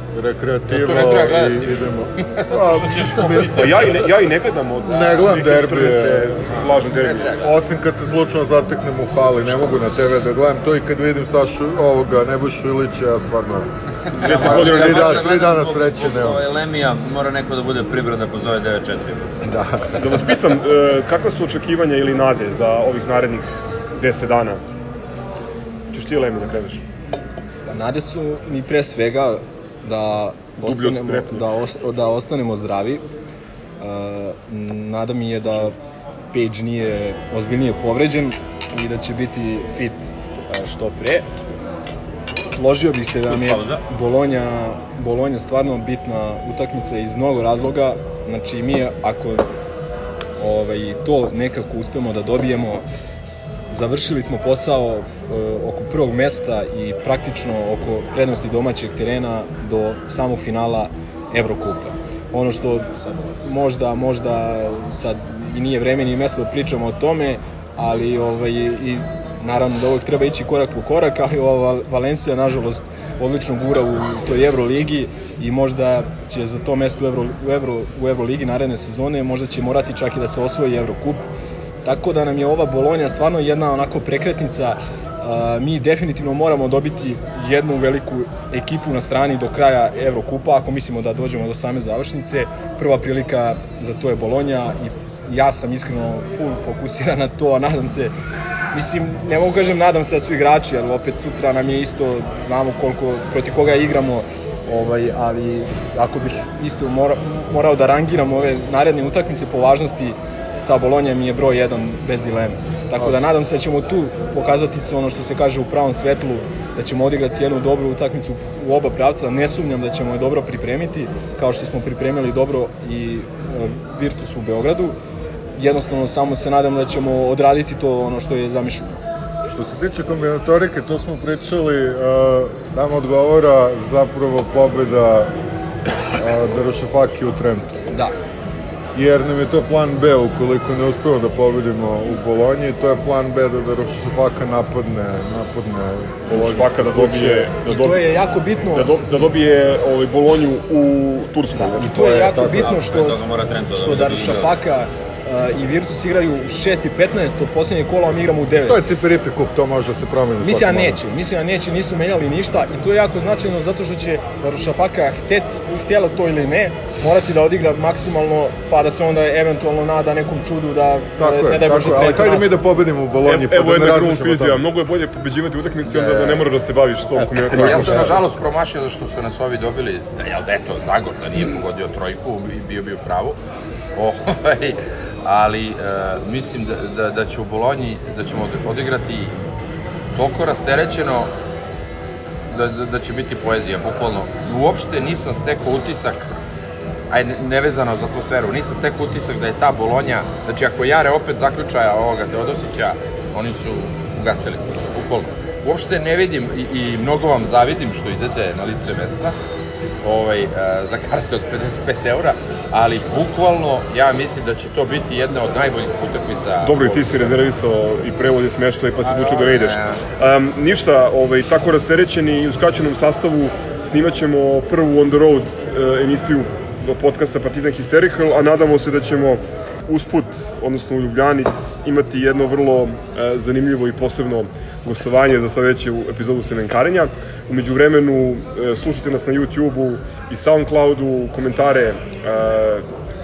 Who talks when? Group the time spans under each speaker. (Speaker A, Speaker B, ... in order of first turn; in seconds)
Speaker A: 0.1-4.1, 4.8-6.7, 7.4-16.4, 19.4-20.0, 129.5-135.3, 136.1-137.8, 138.9-147.5, 158.6-161.0, 171.2-174.6, 175.9-176.5, 177.2-178.2
Speaker B: 0.7-3.8, 7.0-7.4, 177.5-183.4, 183.9-189.3, 190.1-191.3, 192.5-196.3, 197.1-209.4, 210.0-217.4, 219.0-220.0
Speaker C: 3.4-7.4, 14.2-15.3, 19.9-24.6, 25.9-26.8, 30.6-31.5, 146.3-148.0, 148.7-152.6, 173.2-178.2, 216.6-242.8
Speaker D: 14.1-19.4, 43.3-43.8, 152.3-154.6
Speaker E: 27.7-33.0, 33.8-35.8, 36.3-41.3, 42.5-49.5, 50.4-52.8, 53.7-81.2, 81.8-98.1, 98.7-125.0, 125.6-129.0, 147.6-148.9, 151.6-158.8, 160.4-172.6